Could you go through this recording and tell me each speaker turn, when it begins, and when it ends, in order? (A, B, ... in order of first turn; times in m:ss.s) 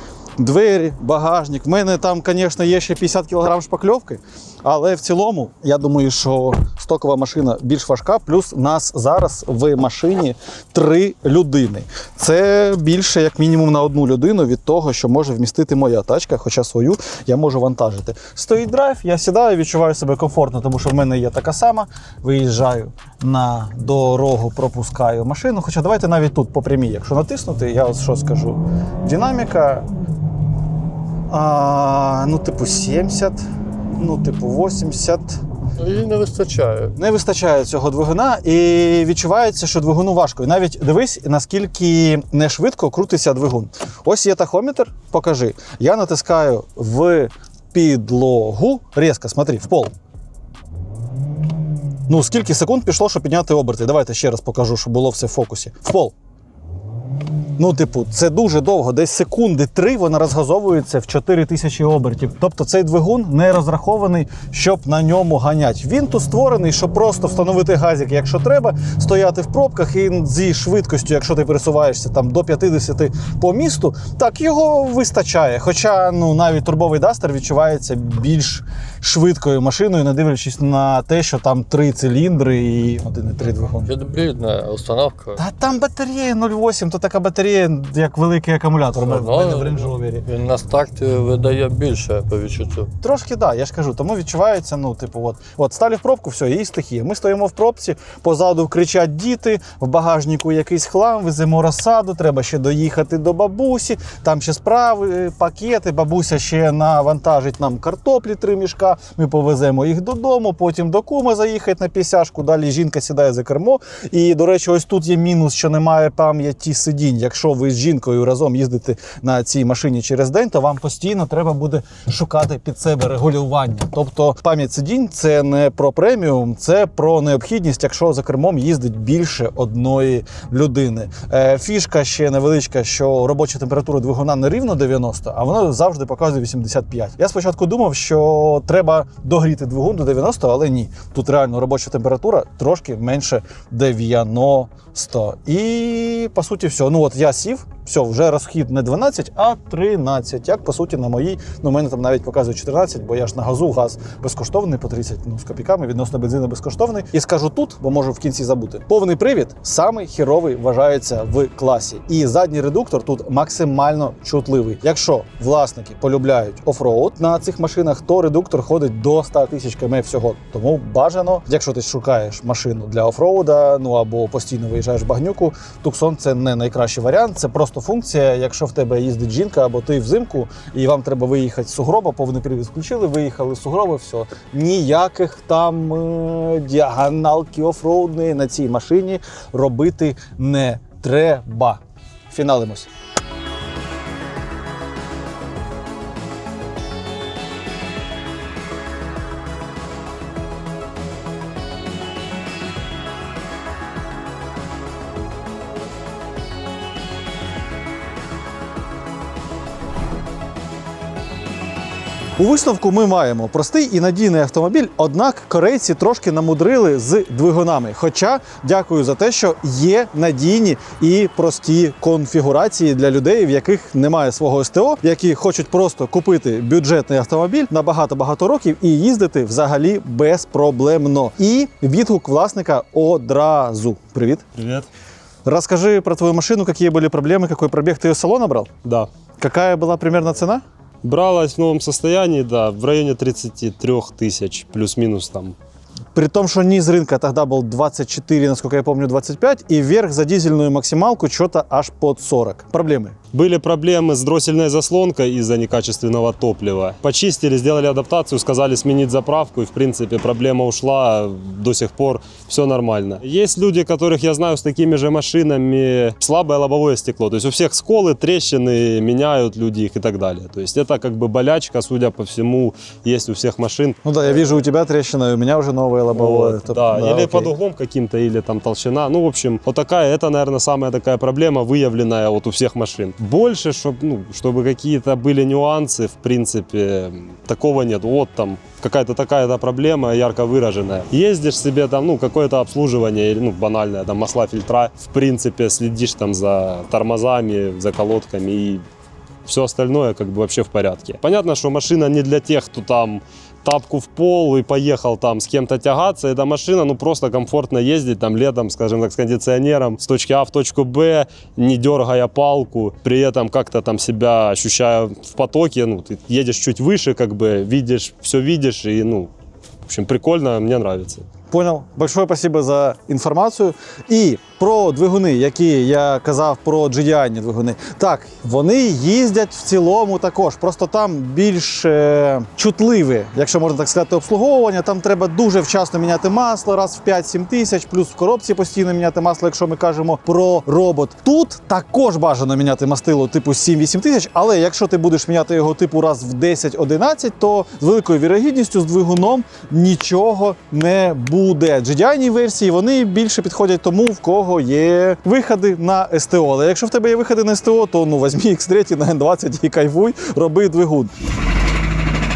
0:00.4-0:29.9 A
0:31.3-0:33.4 A
0:34.0-0:35.4 A
0:35.8-0:37.0 B
0:37.0-0:49.9 A
0:52.1-0:56.1 A
0:57.6-1:23.9 A
1:23.6-1:25.4 B
1:25.4-1:30.2 A
1:28.9-1:32.9 B
1:33.0-3:12.9 A
3:32.4-3:54.5 A
3:54.6-3:54.8 C
3:55.4-3:58.7 A
3:59.4-4:00.6 A
4:01.0-4:05.6 C
4:06.1-4:13.2 A
4:13.3-4:34.0 C
4:34.0-4:37.5 A
4:36.1-4:58.8 C
4:59.4-5:19.3 C
5:19.9-5:21.2 C
5:21.5-6:01.1 A